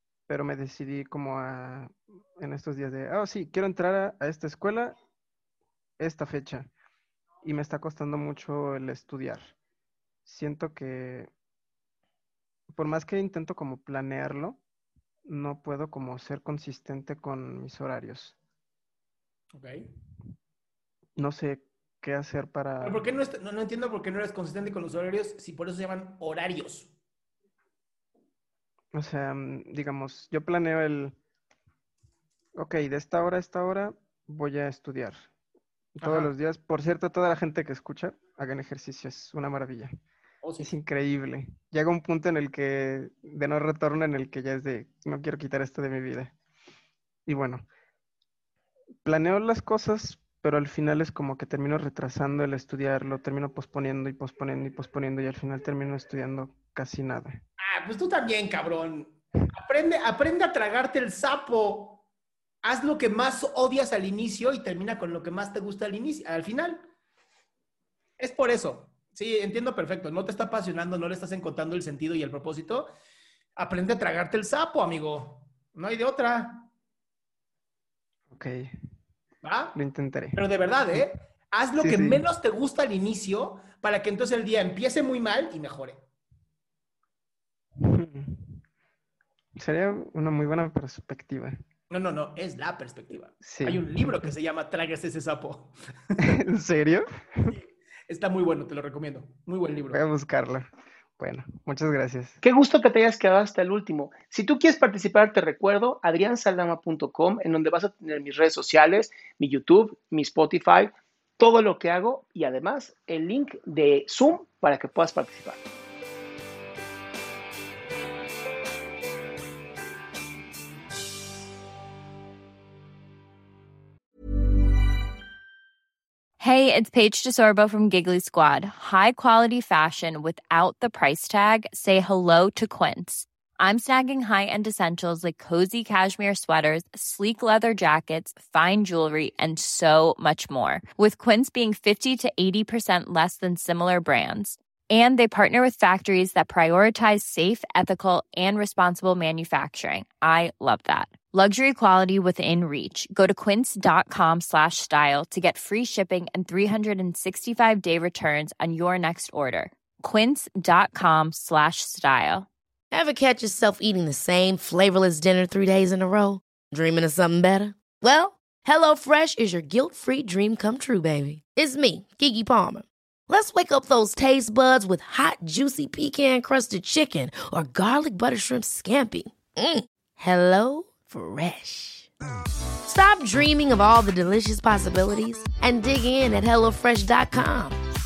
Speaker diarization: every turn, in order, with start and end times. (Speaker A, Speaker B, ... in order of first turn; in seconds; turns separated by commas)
Speaker A: 0.3-4.9, Speaker A: 6.0-6.7, Speaker A: 7.4-9.6, Speaker A: 10.3-11.3, Speaker A: 12.7-14.6, Speaker A: 15.3-18.4, Speaker B: 19.5-19.9, Speaker A: 21.2-23.0, Speaker B: 22.8-26.9, Speaker A: 28.9-31.2, Speaker A: 32.6-35.2, Speaker A: 36.0-39.9, Speaker B: 36.0-36.3, Speaker B: 40.4-40.7, Speaker A: 40.6-46.3, Speaker A: 47.3-47.6, Speaker A: 49.0-57.4, Speaker B: 57.6-62.0, Speaker B: 62.6-66.9, Speaker B: 68.2-72.9, Speaker B: 73.6-76.7, Speaker A: 78.3-78.7, Speaker B: 79.4-79.8, Speaker A: 79.8-81.1, Speaker B: 80.3-86.0, Speaker A: 81.8-82.2, Speaker A: 87.8-88.6, Speaker A: 89.6-91.6, Speaker B: 91.9-96.4, Speaker A: 93.4-94.3, Speaker A: 96.2-97.5, Speaker B: 97.5-100.0, Speaker A: 99.9-100.7, Speaker A: 101.2-102.4, Speaker C: 102.4-115.6, Speaker D: 126.4-162.5, Speaker E: 162.9-182.1, Speaker E: 182.8-187.8